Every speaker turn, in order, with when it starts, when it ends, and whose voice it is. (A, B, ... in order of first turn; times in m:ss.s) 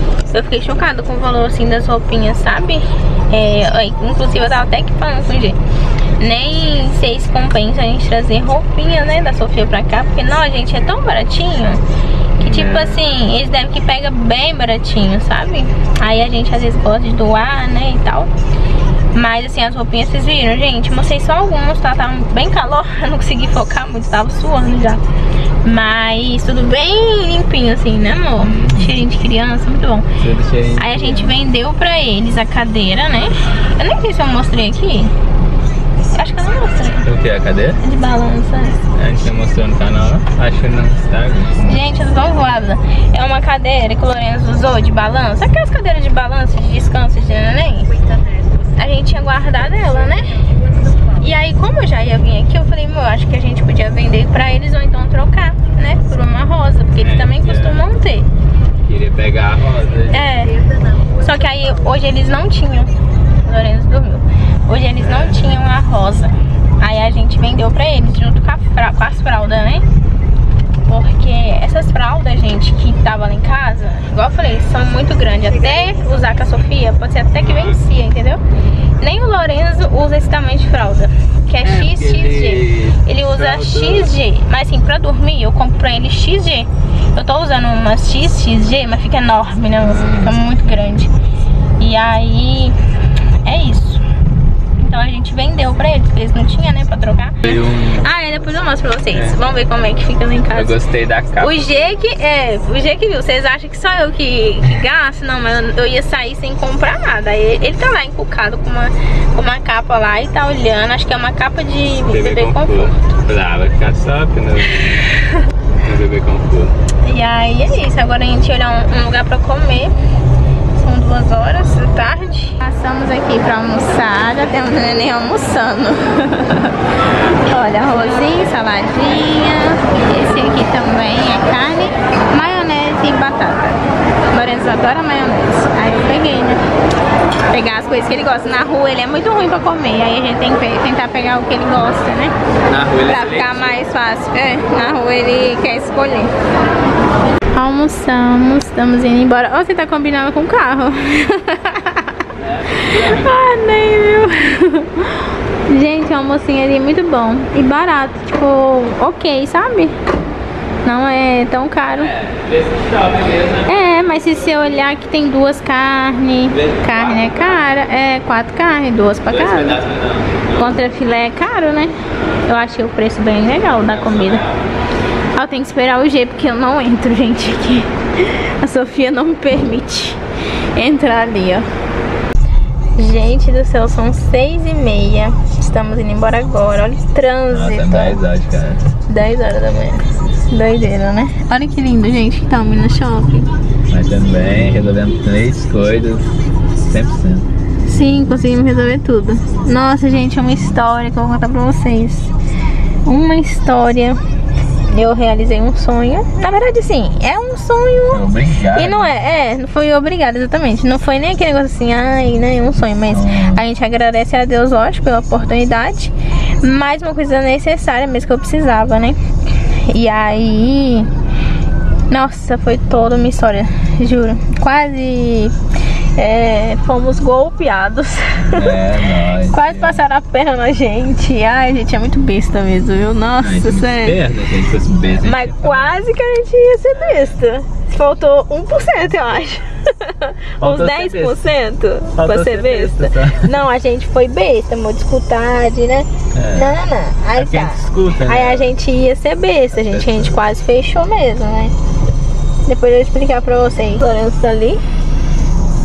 0:00.3-0:05.6 A
0:06.2-0:11.8 A
0:12.4-0:18.3 A
0:12.4-0:13.1 B
0:19.1-0:25.0 A
0:25.6-0:30.1 A
0:28.4-0:29.0 B
0:30.2-0:31.4 B
0:30.8-0:35.1 A
0:36.1-0:37.1 A
0:37.0-0:37.8 B
0:37.8-0:38.9 A
0:38.9-0:41.8 B
0:41.6-0:48.0 A
0:48.8-0:58.3 A
0:57.0-0:57.9 B
0:58.8-1:00.4 B
1:00.1-1:09.9 A
1:05.0-1:05.6 B
1:10.8-1:18.4 A
1:17.4-1:17.8 B
1:19.0-1:31.1 A
1:21.6-1:24.2 B
1:29.8-1:30.4 B
1:31.8-1:32.8 A
1:33.4-1:34.0 A
1:34.8-1:40.8 A
1:37.4-1:38.1 B
1:39.1-1:39.4 B
1:40.5-1:41.6 B
1:41.4-1:53.0 A
1:52.1-1:55.0 B
1:55.7-1:56.8 B
1:57.0-1:59.9 A
2:00.8-2:06.8 A
2:07.5-2:13.8 A
2:14.3-2:16.6 A
2:17.5-2:22.4 A
2:22.6-2:23.8 B
2:23.1-2:26.3 A
2:27.6-2:32.2 A
2:32.4-2:33.6 B
2:32.8-2:40.0 A
2:40.8-2:42.1 A
2:41.9-2:44.8 B
2:43.7-2:49.8 A
2:46.5-2:47.8 B
2:49.3-2:50.8 B
2:50.6-2:51.9 A
2:52.5-2:54.4 A
2:53.7-2:54.7 B
2:55.4-3:00.2 A
3:00.8-3:01.7 A
3:03.0-3:08.2 A
3:07.5-3:09.0 B
3:09.1-3:13.5 A
3:13.9-3:17.5 B
3:17.8-3:22.3 A
3:23.0-3:24.2 A
3:24.9-3:41.1 A
3:28.1-3:29.2 B
3:33.1-3:33.6 B
3:42.1-3:45.6 A
3:46.2-3:48.8 A
3:48.4-3:50.0 B
3:49.4-3:54.2 A
3:53.4-3:55.9 B
3:55.2-4:11.8 A
4:00.6-4:01.5 B
4:02.1-4:03.5 B
4:06.3-4:06.8 B
4:07.3-4:08.7 B
4:09.8-4:10.4 B
4:12.6-4:14.8 A